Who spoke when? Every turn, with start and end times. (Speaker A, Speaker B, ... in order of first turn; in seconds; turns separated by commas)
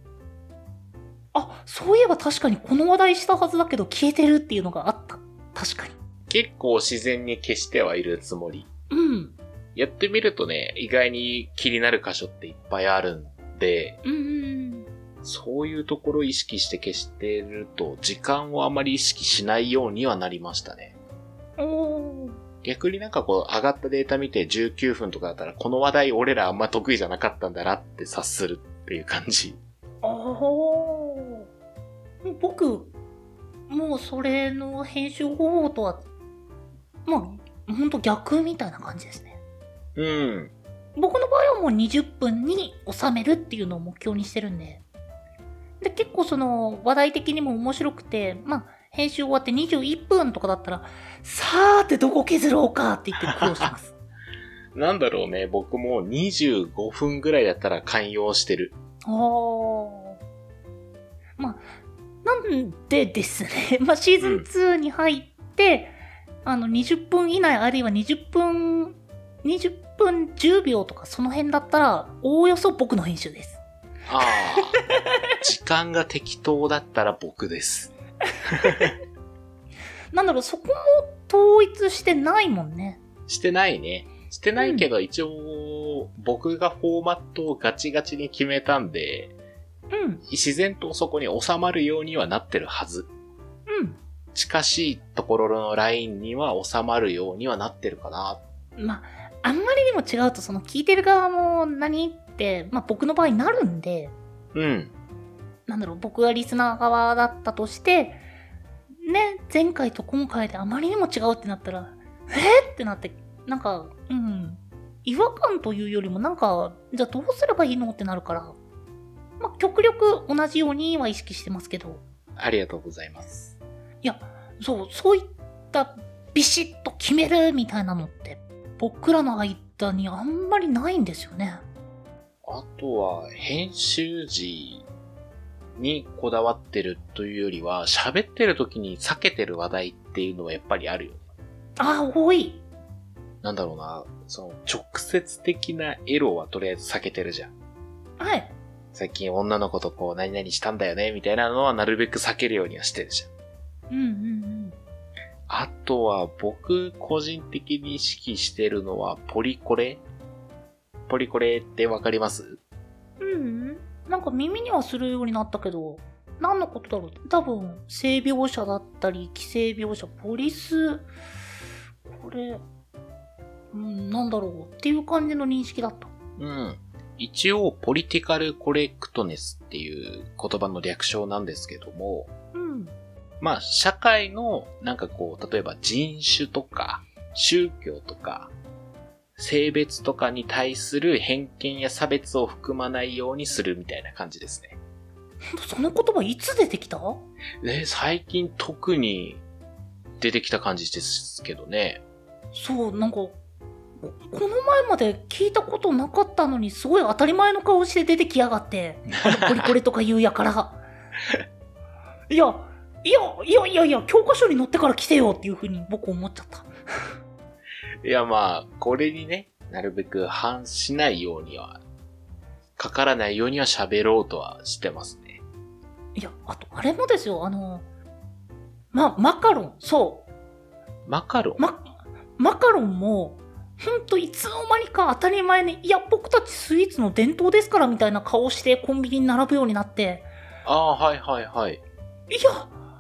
Speaker A: 1.3-6.0, Speaker B: 6.3-8.7, Speaker A: 8.9-9.4, Speaker B: 9.8-14.0, Speaker A: 14.0-14.9, Speaker B: 15.2-21.0, Speaker A: 21.6-22.4, Speaker B: 22.6-29.6, Speaker A: 30.0-31.5, Speaker A: 32.2-32.9, Speaker A: 33.7-36.1, Speaker A: 37.1-39.4, Speaker B: 40.0-40.5, Speaker A: 41.0-44.8, Speaker A: 45.8-54.0, Speaker B: 53.3-53.7, Speaker B: 54.8-58.8, Speaker A: 59.0-60.2, Speaker A: 61.4-61.7, Speaker A: 62.2-73.6, Speaker B: 64.2-64.5, Speaker B: 74.1-74.8, Speaker B: 75.4-77.9, Speaker B: 78.5-78.9, Speaker A: 80.1-83.0, Speaker B: 83.3-89.3, Speaker A: 84.6-84.9, Speaker A: 89.9-90.2, Speaker B: 90.3-93.1, Speaker A: 93.7-94.0, Speaker B: 94.3-98.4, Speaker A: 98.8-104.1, Speaker B: 104.5-104.9, Speaker A: 105.7-108.2, Speaker A: 109.0-118.6, Speaker A: 119.4-122.0, Speaker B: 122.4-123.6, Speaker A: 124.0-131.6, Speaker B: 132.4-134.9, Speaker B: 135.8-141.2, Speaker A: 141.8-142.6, Speaker B: 143.4-147.5, Speaker A: 148.2-148.6, Speaker B: 148.9-153.3, Speaker A: 153.9-154.8, Speaker B: 155.5-160.0, Speaker B: 161.1-162.6, Speaker A: 163.2-171.1, Speaker A: 172.1-172.6, Speaker A: 173.7-176.1, Speaker B: 176.4-182.3, Speaker A: 182.5-182.9, Speaker B: 183.4-188.5, Speaker B: 189.4-194.8, Speaker A: 195.5-197.2, Speaker B: 197.6-199.4, Speaker B: 200.2-202.0, Speaker A: 202.5-203.4, Speaker A: 204.0-210.8, Speaker B: 209.1-209.7, Speaker A: 212.3-217.1, Speaker B: 218.0-221.8, Speaker B: 222.8-225.4, Speaker A: 226.2-227.9, Speaker A: 228.9-230.3, Speaker B: 231.1-231.6, Speaker A: 231.6-240.3, Speaker B: 240.7-241.8, Speaker A: 242.3-242.8